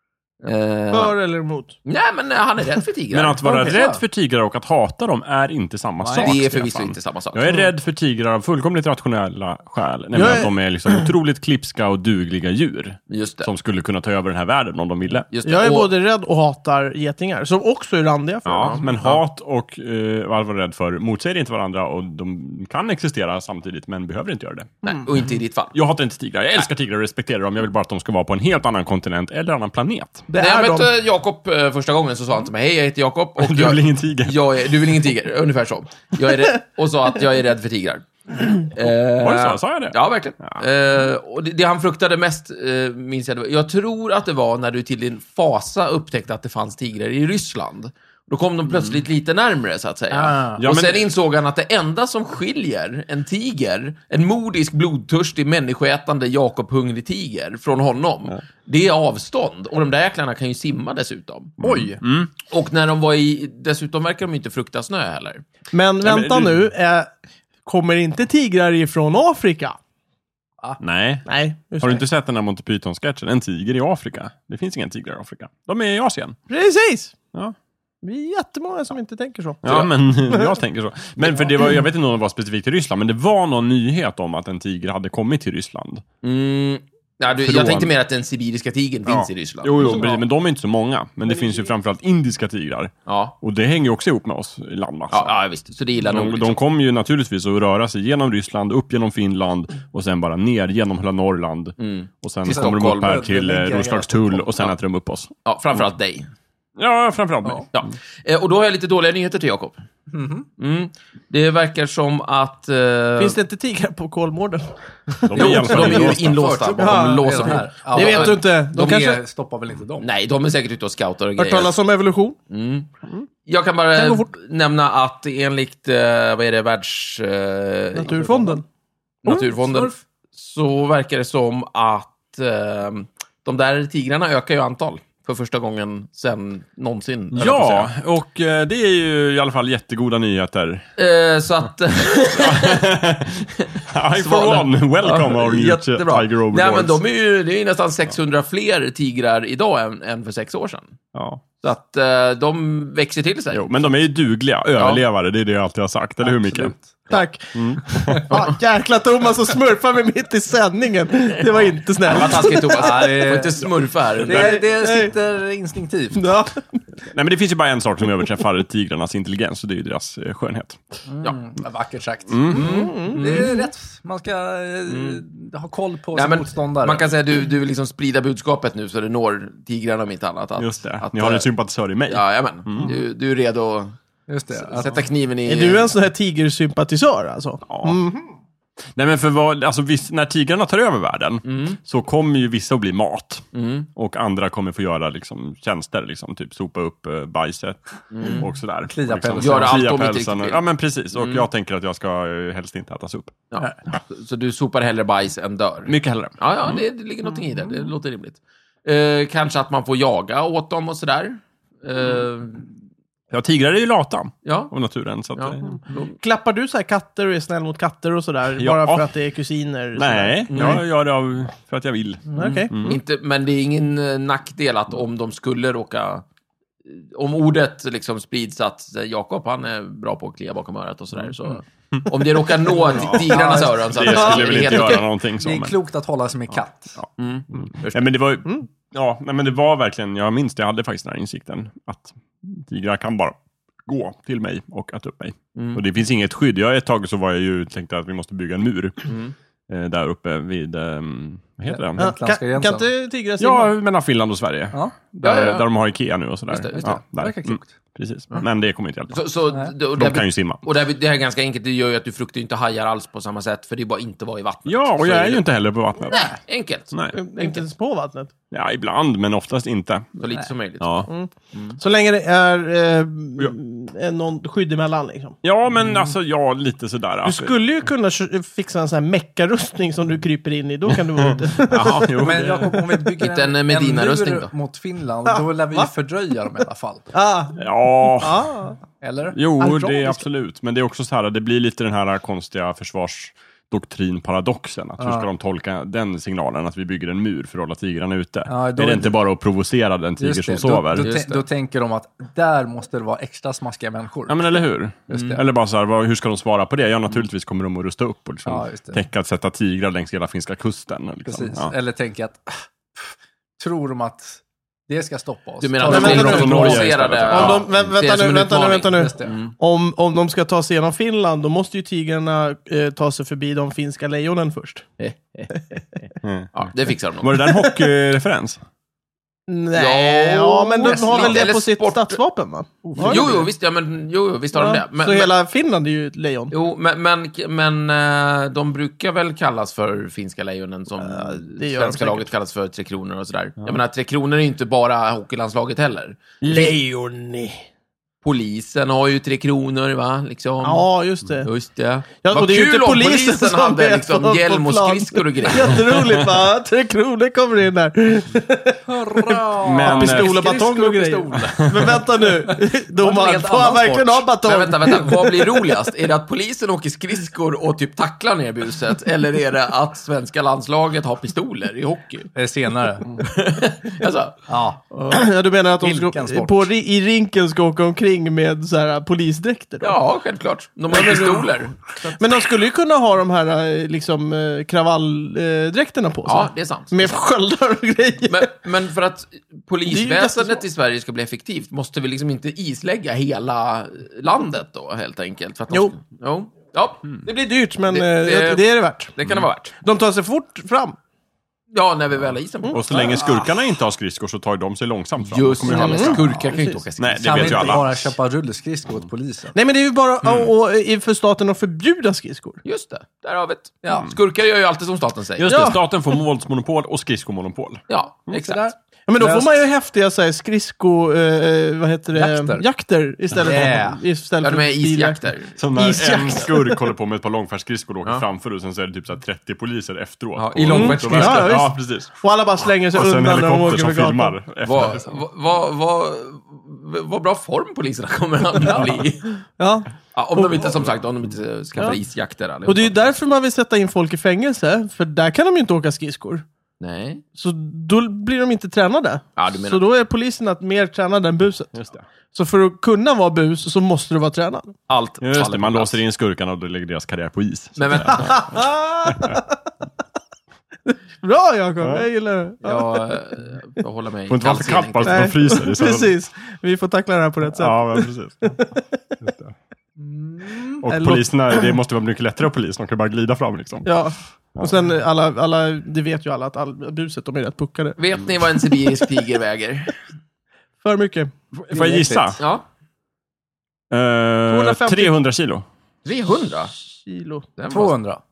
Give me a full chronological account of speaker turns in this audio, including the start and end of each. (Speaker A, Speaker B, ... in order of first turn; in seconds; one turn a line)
Speaker A: 0.4-1.1
Speaker B: 0.9-1.8
Speaker A: 1.8-3.5
Speaker C: 3.1-15.3
Speaker B: 3.4-3.7
Speaker D: 3.6-4.0
Speaker D: 6.0-6.4
Speaker A: 6.2-7.7
Speaker B: 10.1-11.1
Speaker A: 13.1-13.5
Speaker A: 15.3-15.9
Speaker B: 15.4-18.8
Speaker C: 18.4-24.7
Speaker A: 18.5-19.2
Speaker A: 24.8-25.8
Speaker C: 25.7-30.3
Speaker B: 30.3-30.9
Speaker A: 30.4-61.6
Speaker C: 33.4-34.5
Speaker C: 39.1-40.6
Speaker C: 48.7-49.0
Speaker D: 50.1-50.6
Speaker C: 50.6-51.0
Speaker C: 61.6-62.3
Speaker D: 61.6-61.9
Speaker A: 62.4-65.4
Speaker B: 65.7-67.1
Speaker C: 66.0-66.7
Speaker B: 67.6-69.8
Speaker C: 70.8-76.4
Speaker B: 71.2-72.0
Speaker B: 76.5-77.2
Speaker B: 78.0-79.6
Speaker C: 79.6-86.0
Speaker A: 79.6-79.9
Speaker B: 80.2-80.6
Speaker B: 81.2-81.8
Speaker A: 86.2-90.1
Speaker C: 87.4-87.9
Speaker C: 89.0-95.3
Speaker A: 93.0-93.3
Speaker A: 95.1-96.6
Speaker C: 96.0-105.3
Speaker A: 101.8-103.2
Speaker D: 102.4-104.6
Speaker A: 105.4-106.3
Speaker C: 106.8-107.9
Speaker A: 107.7-109.8
Speaker D: 110.1-110.5
Speaker A: 110.6-113.4
Speaker B: 113.2-114.8
Speaker C: 115.2-116.4
Speaker B: 115.3-116.1
Speaker A: 115.3-119.1
Speaker D: 115.3-120.0
Speaker B: 116.8-119.2
Speaker A: 120.0-121.7
Speaker B: 121.4-122.4
Speaker A: 122.5-122.9
Speaker A: 123.4-128.6
Speaker B: 123.9-124.3
Speaker B: 127.9-128.6
Speaker A: 129.2-137.9
Speaker D: 129.4-130.0
Speaker C: 137.3-140.9
Speaker A: 141.0-142.8
Speaker C: 142.3-147.0
Speaker A: 143.6-151.0
Speaker C: 151.1-151.4
Speaker A: 151.6-153.6
Speaker C: 153.5-156.7
Speaker A: 154.8-155.0
Speaker D: 156.2-156.9
Speaker B: 157.1-163.1
Speaker C: 157.5-158.4
Speaker A: 162.0-164.6
Speaker D: 162.5-166.5
Speaker B: 164.3-165.1
Speaker B: 166.1-166.6
Speaker C: 167.1-171.0
Speaker D: 171.1-177.1
Speaker C: 172.3-172.7
Speaker A: 172.5-173.7
Speaker B: 172.5-173.5
Speaker A: 174.9-175.2
Speaker A: 176.1-181.5
Speaker C: 180.6-183.0
Speaker A: 182.1-183.9
Speaker D: 184.3-185.0
Speaker A: 184.5-185.9
Speaker B: 185.4-188.3
Speaker C: 187.7-188.0
Speaker C: 188.9-203.4
Speaker A: 191.4-191.8
Speaker A: 193.5-193.9
Speaker A: 198.1-198.5
Speaker D: 198.2-199.9
Speaker A: 199.4-201.4
Speaker A: 203.5-212.7
Speaker C: 205.9-206.8
Speaker C: 213.3-215.8
Speaker A: 214.4-214.7
Speaker A: 215.3-216.1
Speaker B: 216.2-220.8
Speaker C: 218.6-219.1
Speaker C: 219.9-223.0
Speaker A: 220.5-220.8
Speaker B: 222.3-223.0
Speaker A: 222.8-226.2
Speaker A: 226.8-235.1
Speaker D: 232.9-234.6
Speaker C: 232.9-235.8
Speaker D: 235.4-236.9
Speaker A: 237.2-238.0
Speaker C: 237.6-249.1
Speaker A: 245.5-245.8
Speaker A: 249.1-249.3
Speaker C: 249.7-252.1
Speaker D: 251.7-252.9
Speaker B: 252.0-253.7
Speaker C: 253.4-259.3
Speaker A: 255.2-255.7
Speaker A: 256.5-256.8
Speaker D: 256.7-257.8
Speaker A: 259.1-265.4
Speaker C: 259.9-260.6
Speaker C: 264.6-266.3
Speaker A: 266.1-267.6
Speaker C: 266.9-267.2
Speaker B: 267.1-268.3
Speaker C: 268.5-270.1
Speaker A: 270.2-271.8
Speaker C: 270.8-271.1
Speaker B: 271.1-275.4
Speaker C: 275.4-277.5
Speaker B: 277.2-282.1
Speaker C: 281.1-282.9
Speaker D: 282.1-287.1
Speaker B: 282.8-283.1
Speaker A: 283.2-284.5
Speaker B: 285.2-285.9
Speaker B: 287.1-288.8
Speaker C: 287.6-288.5
Speaker D: 289.0-290.2
Speaker C: 289.3-301.2
Speaker D: 295.0-295.3
Speaker D: 298.5-299.2
Speaker D: 300.2-304.6
Speaker A: 301.0-301.4
Speaker C: 304.3-311.7
Speaker D: 305.1-305.4
Speaker A: 305.1-305.4
Speaker D: 308.4-309.0
Speaker D: 311.2-313.0
Speaker D: 313.6-316.8
Speaker A: 315.6-319.5
Speaker C: 315.8-317.7
Speaker B: 315.9-324.9
Speaker D: 318.9-319.3
Speaker A: 325.0-325.5
Speaker C: 326.2-326.6
Speaker A: 326.5-327.5
Speaker C: 327.2-328.6
Speaker B: 327.5-327.7
Speaker B: 329.5-333.4
Speaker A: 329.7-332.2
Speaker D: 330.9-331.2
Speaker D: 332.8-333.5
Speaker A: 333.0-335.3
Speaker B: 334.5-336.5
Speaker A: 336.5-346.7
Speaker B: 341.0-342.3
Speaker B: 346.4-347.6
Speaker A: 348.2-356.0
Speaker B: 350.6-351.5
Speaker B: 352.2-365.7
Speaker D: 358.9-364.2
Speaker C: 359.6-360.4
Speaker A: 364.4-372.3
Speaker D: 372.3-373.2
Speaker A: 373.0-374.5
Speaker D: 374.5-375.2
Speaker B: 375.1-380.0
Speaker D: 375.8-376.6
Speaker A: 379.8-382.2
Speaker B: 380.9-388.5
Speaker A: 386.2-386.9
Speaker A: 388.2-399.7
Speaker B: 389.9-390.6
Speaker B: 397.3-399.1
Speaker B: 399.8-401.0
Speaker A: 401.7-403.3
Speaker C: 402.7-406.4
Speaker D: 402.9-403.4
Speaker A: 405.2-407.9
Speaker B: 405.7-406.8
Speaker D: 405.9-406.5
Speaker C: 407.0-408.1
Speaker D: 407.2-409.5
Speaker B: 409.5-412.6
Speaker C: 410.2-410.5
Speaker A: 412.6-415.7
Speaker D: 413.8-414.1
Speaker C: 415.4-417.8
Speaker B: 415.5-415.8
Speaker A: 417.9-418.7
Speaker D: 418.4-419.7
Speaker B: 419.1-426.9
Speaker D: 422.1-422.6
Speaker D: 423.4-424.0
Speaker A: 424.4-425.5
Speaker C: 425.6-432.2
Speaker A: 430.4-431.5
Speaker B: 430.7-434.4
Speaker D: 430.7-431.5
Speaker C: 432.9-435.2
Speaker A: 434.6-439.4
Speaker B: 439.6-440.7
Speaker A: 440.1-443.1
Speaker B: 442.6-446.4
Speaker A: 446.8-447.2
Speaker B: 447.3-451.7
Speaker A: 449.4-449.8
Speaker C: 451.7-452.0
Speaker B: 452.3-454.7
Speaker A: 454.9-456.0
Speaker C: 455.2-459.4
Speaker A: 457.8-458.4
Speaker B: 458.2-459.5
Speaker B: 460.9-463.1
Speaker C: 461.8-462.1
Speaker A: 462.6-465.5
Speaker C: 464.3-466.1
Speaker B: 465.0-469.0
Speaker C: 467.4-468.5
Speaker C: 469.2-469.5
Speaker D: 470.0-470.9
Speaker C: 470.8-474.0
Speaker B: 470.9-471.7
Speaker B: 473.8-478.0
Speaker C: 474.6-474.9
Speaker A: 478.0-479.9
Speaker B: 478.6-478.9
Speaker B: 480.8-481.3
Speaker C: 481.5-482.4
Speaker D: 481.7-482.4
Speaker A: 482.4-482.6
Speaker C: 483.9-485.6
Speaker B: 484.5-485.1
Speaker A: 486.0-486.7
Speaker B: 486.7-487.4
Speaker A: 487.6-487.9
Speaker D: 487.7-488.2